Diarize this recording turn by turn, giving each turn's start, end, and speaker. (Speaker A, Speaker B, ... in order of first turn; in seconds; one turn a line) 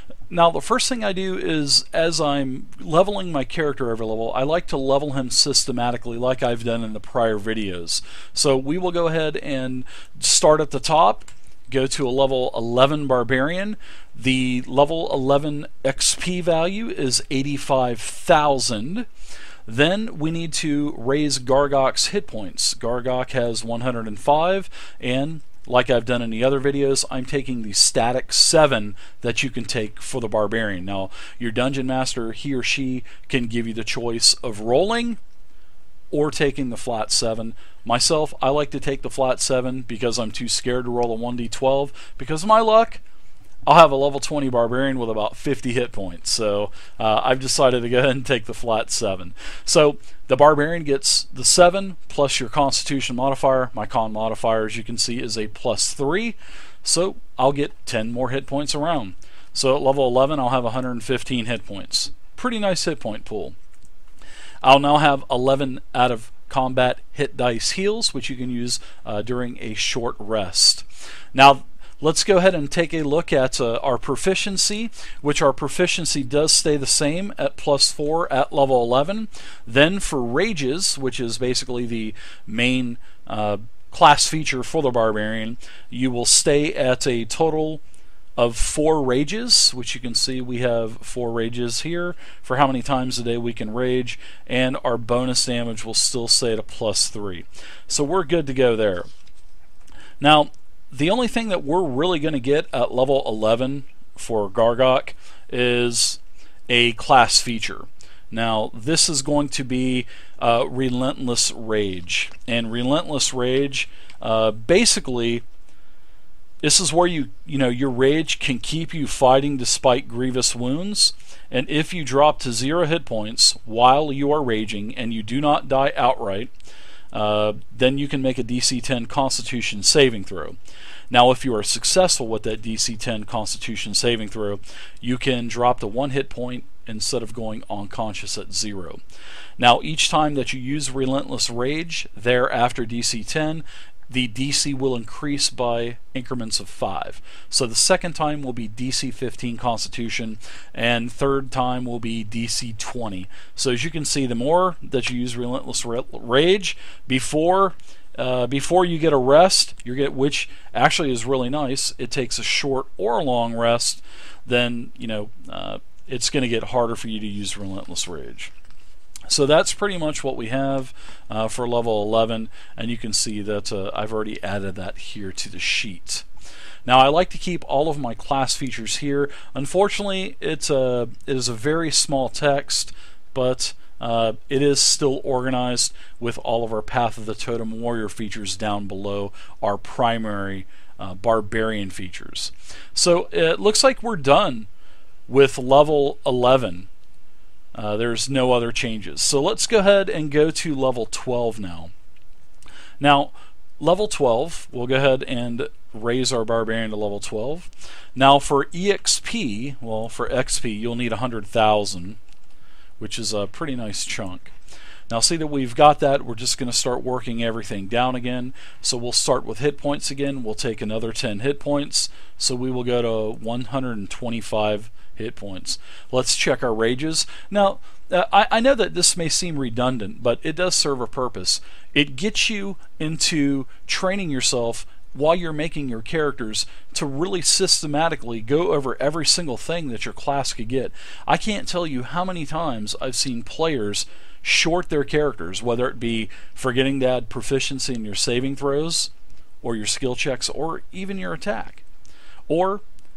Speaker A: 0.3-19.1
Speaker A: 19.7-35.2
Speaker A: 36.1-43.0
Speaker A: 43.7-63.6
Speaker A: 64.6-87.8
Speaker A: 88.4-99.1
Speaker A: 100.2-115.4
Speaker A: 116.6-126.5
Speaker A: 127.1-130.6
Speaker A: 131.1-139.0
Speaker A: 139.6-168.5
Speaker A: 169.3-176.2
Speaker A: 176.8-194.7
Speaker A: 195.3-196.9
Speaker A: 197.8-201.9
Speaker A: 203.0-212.2
Speaker A: 213.0-214.5
Speaker A: 215.1-249.1
Speaker A: 249.6-251.8
Speaker A: 252.5-252.8